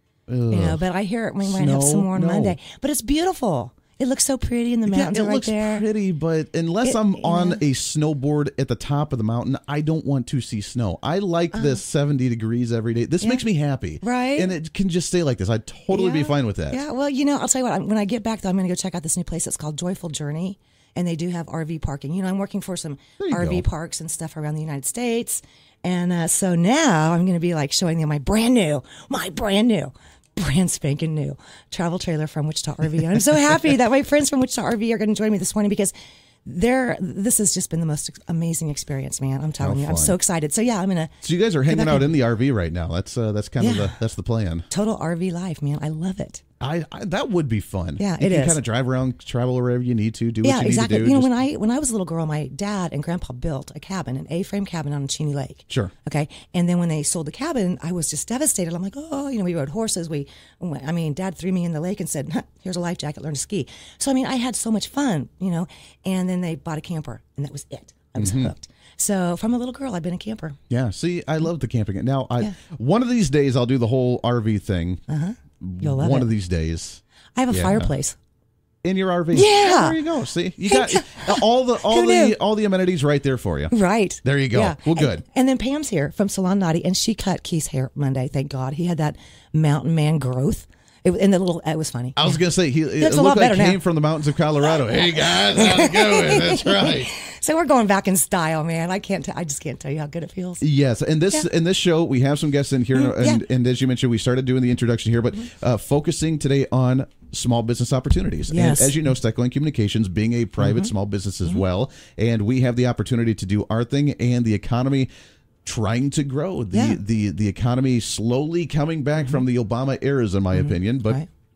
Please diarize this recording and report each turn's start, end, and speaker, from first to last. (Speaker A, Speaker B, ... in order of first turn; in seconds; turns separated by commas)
Speaker A: 0.3-0.8, Speaker B: 0.5-5.8, Speaker A: 1.4-2.6, Speaker A: 4.9-16.8, Speaker B: 6.8-7.6, Speaker B: 11.5-11.8, Speaker B: 14.0-14.5, Speaker B: 15.9-35.9, Speaker A: 23.2-23.6, Speaker B: 36.5-41.1, Speaker A: 39.6-40.2, Speaker A: 41.2-44.6, Speaker B: 41.6-42.1, Speaker B: 43.6-44.0, Speaker B: 44.7-46.4, Speaker A: 46.6-51.3, Speaker B: 48.0-48.6, Speaker B: 50.4-70.6, Speaker A: 68.2-68.5, Speaker A: 70.7-75.0, Speaker B: 75.1-76.3, Speaker A: 75.6-77.9, Speaker B: 77.3-78.2, Speaker A: 78.8-85.2, Speaker B: 79.3-80.0, Speaker B: 80.7-82.3, Speaker B: 83.7-92.4, Speaker A: 92.2-97.1, Speaker B: 93.0-93.8, Speaker B: 94.8-100.6, Speaker A: 100.6-115.1, Speaker B: 102.9-103.4, Speaker B: 108.5-109.0, Speaker B: 110.6-110.9, Speaker A: 115.6-121.2, Speaker B: 116.7-117.0, Speaker B: 120.5-121.3